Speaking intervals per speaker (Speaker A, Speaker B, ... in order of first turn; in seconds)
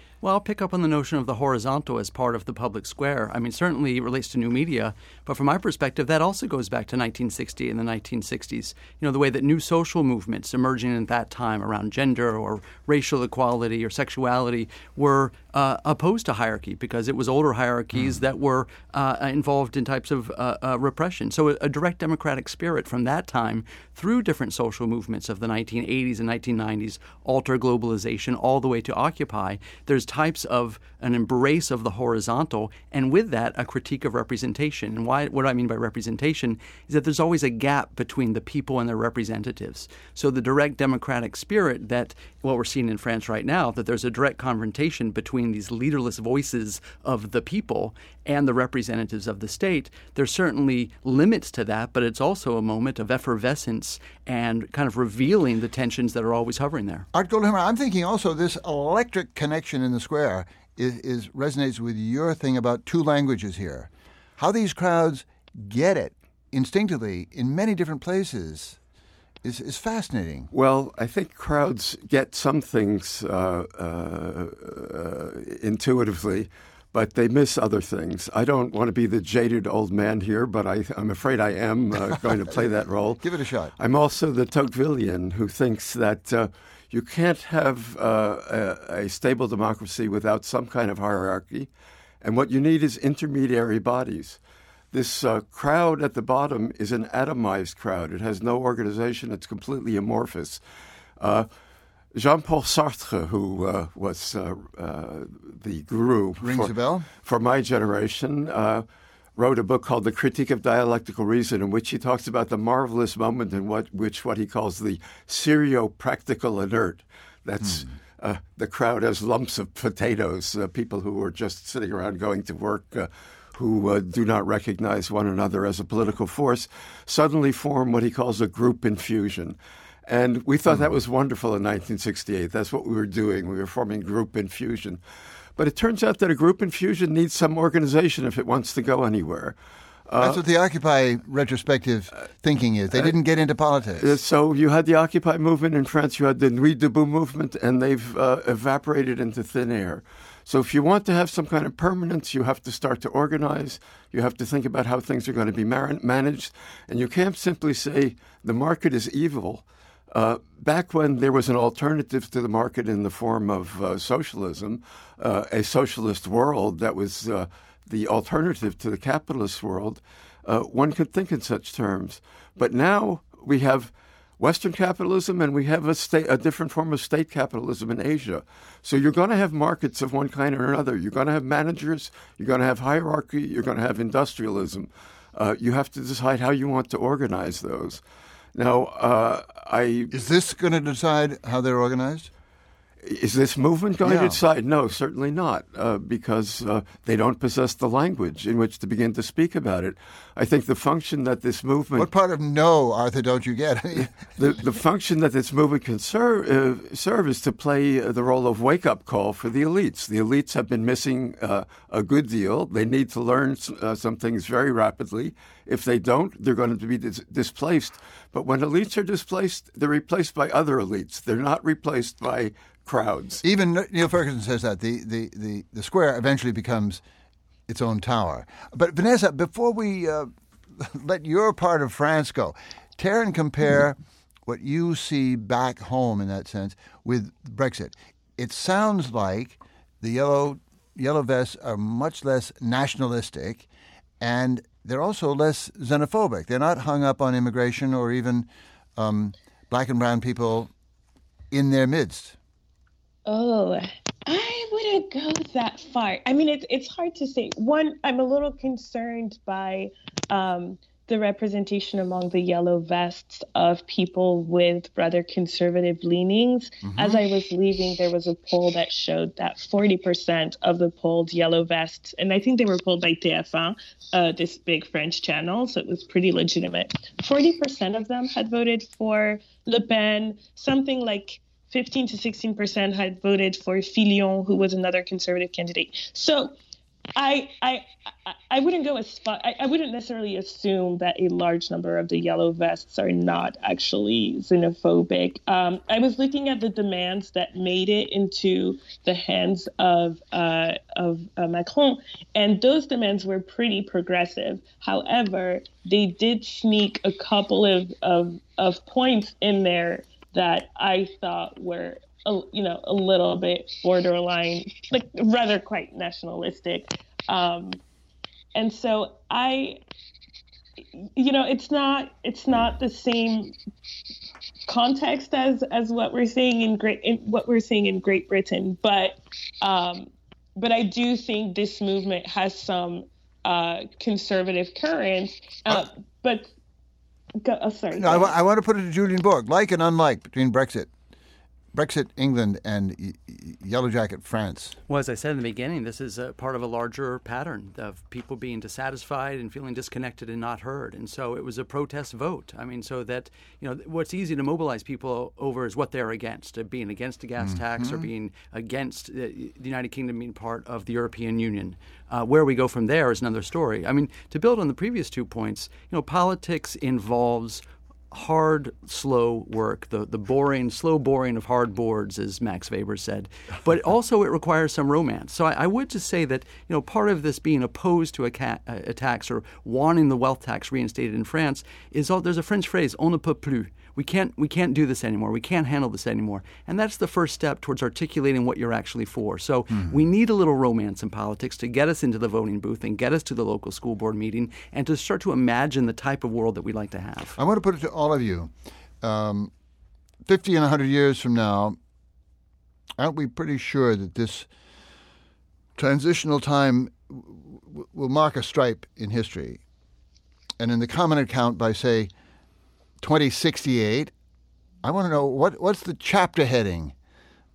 Speaker A: 0.2-57.0, 344.9-397.4
Speaker B: 57.1-68.8, 69.4-70.5, 83.2-83.7, 106.4-107.1, 140.2-144.1, 190.1-192.3, 194.0-194.4, 201.9-204.2, 223.4-227.0, 227.7-243.7, 244.2-250.7, 251.5-252.3, 266.9-267.2, 337.9-340.9, 341.7-344.8, 357.4-358.1, 397.4-399.5, 400.2-401.8, 403.0-404.5, 405.8-409.6, 410.6-412.1, 413.0-414.1, 414.8-416.9
Speaker C: 70.5-83.2, 83.8-91.7, 92.2-94.4, 94.9-100.6, 101.2-101.5, 102.1-106.7, 107.2-108.8, 109.4-129.6, 130.1-135.0, 135.6-139.6, 140.1-140.4, 144.0-188.0, 188.5-190.1, 193.0-202.1, 204.2-223.4
Speaker D: 253.2-286.5, 287.1-317.8, 318.5-319.8, 321.0-323.5, 324.7-336.5, 337.4-338.3